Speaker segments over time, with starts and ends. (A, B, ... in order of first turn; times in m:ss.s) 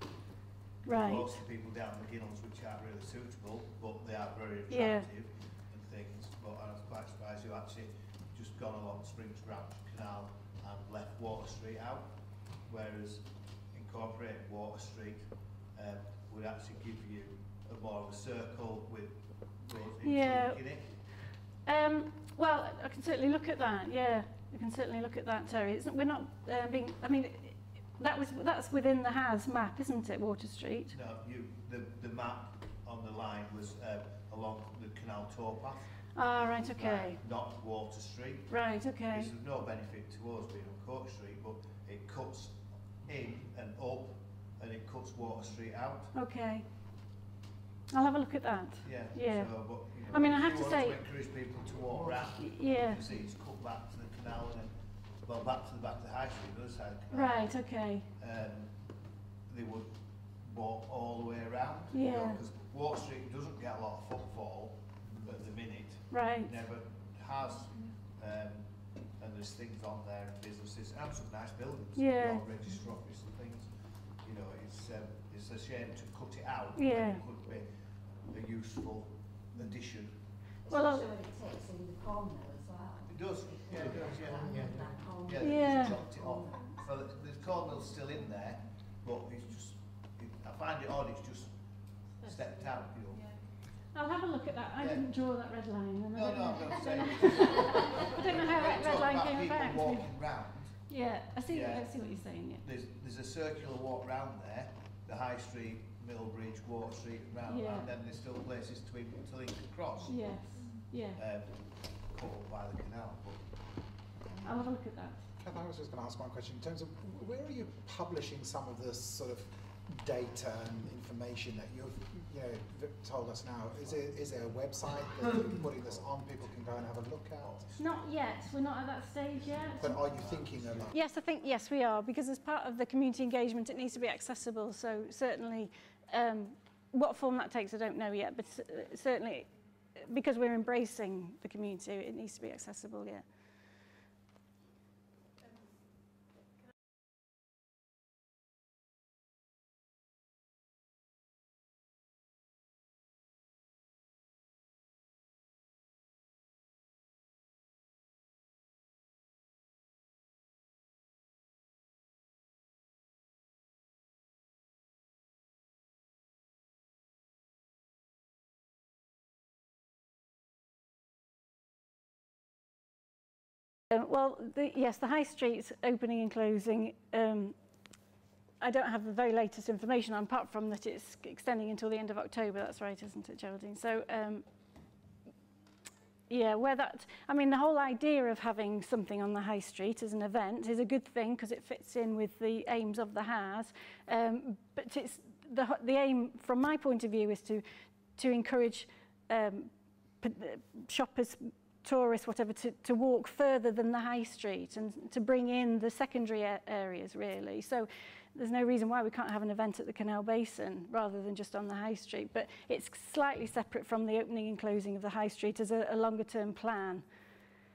0:00.8-0:01.3 A
0:00.9-0:12.1 B
0:04.7-0:05.1 A
0:12.7-0:15.2 B
0:15.8-0:20.8 B
0:20.0-0:20.6 A
0:21.7-0:31.0 A
0:30.9-0:35.9 B
0:36.2-0:37.2 A
0:36.7-0:38.5 B
0:38.5-0:39.3 A
0:39.1-0:46.1 B
0:46.1-0:46.7 A
0:47.9-0:49.5 A
0:48.8-0:54.7 B
0:50.1-0:51.0 A
0:52.4-0:53.0 A
0:55.2-0:57.6 B
0:57.1-0:58.1 A
0:58.2-0:58.7 B
0:59.5-0:59.9 B
1:00.4-1:08.7 B
1:01.9-1:02.4 A
1:06.1-1:06.6 A
1:09.2-1:13.7 B
1:12.0-1:12.4 A
1:14.2-1:17.7 B
1:16.8-1:17.2 A
1:18.3-1:20.2 B
1:20.7-1:26.7 C
1:20.7-1:21.1 A
1:23.1-1:31.5 B
1:24.5-1:24.9 D
1:25.4-1:26.0 A
1:32.2-1:33.3 B
1:32.3-1:32.7 C
1:33.9-1:40.1 A
1:34.8-1:35.1 B
1:36.1-1:40.8 B
1:40.9-1:42.6 A
1:41.5-1:42.0 B
1:42.6-1:50.3 B
1:47.5-1:47.9 A
1:50.1-1:51.2 A
1:51.2-1:53.5 B
1:54.4-1:55.2 A
1:55.4-2:07.6 D
2:03.8-2:08.3 B
2:07.8-2:10.1 A
2:09.3-2:11.0 B
2:09.8-2:11.0 D
2:10.9-2:23.2 A
2:53.9-2:57.6 A
2:58.6-3:04.4 A
3:06.3-3:17.6 A
3:18.2-3:19.7 A
3:20.2-3:37.0 A